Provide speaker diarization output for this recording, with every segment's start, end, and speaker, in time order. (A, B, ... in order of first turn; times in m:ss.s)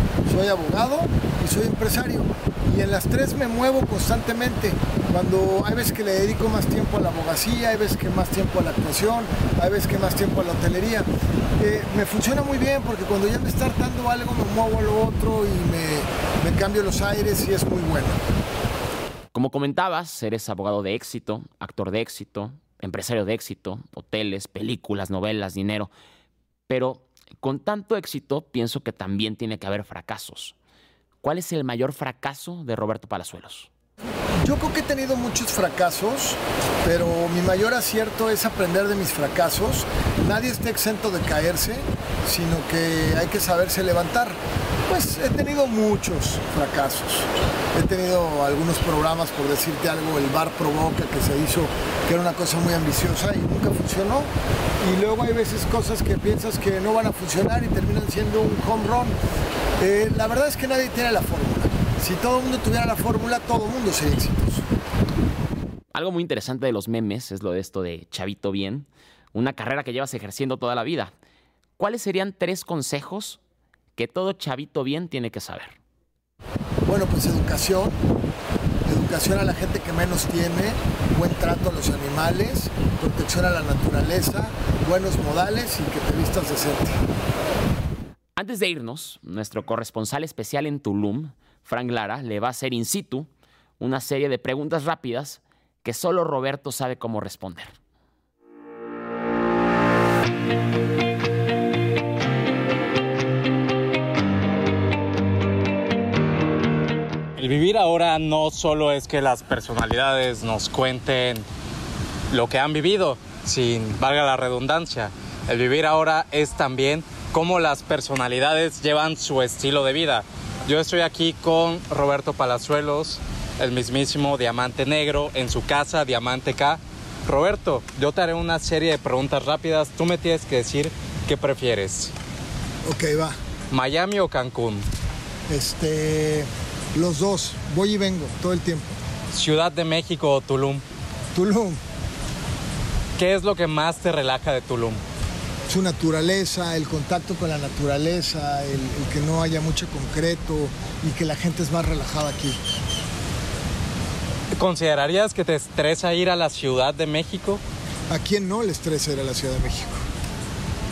0:00.3-0:11.1 A
0:11.6-0:18.2 A
0:19.3-0:25.9 B
0:26.7-0:30.6 B
0:31.2-0:33.7 B
0:34.4-0:54.3 A
0:54.8-0:59.1 A
0:59.8-1:04.6 A
1:05.9-1:11.1 B
1:11.8-1:13.4 B
1:14.0-1:15.8 B
1:16.9-1:18.0 A
1:18.9-1:27.0 A
1:28.4-1:33.3 B
1:33.8-1:37.8 B
1:47.4-1:51.4 C
1:52.3-2:12.1 C
2:12.8-2:13.4 A
2:13.7-2:14.8 C
2:15.5-2:19.0 A
2:19.3-2:20.8 C
2:21.3-2:21.8 A
2:23.2-2:25.0 C
2:25.7-2:32.6 A
2:34.6-2:37.6 C
2:38.1-2:40.0 A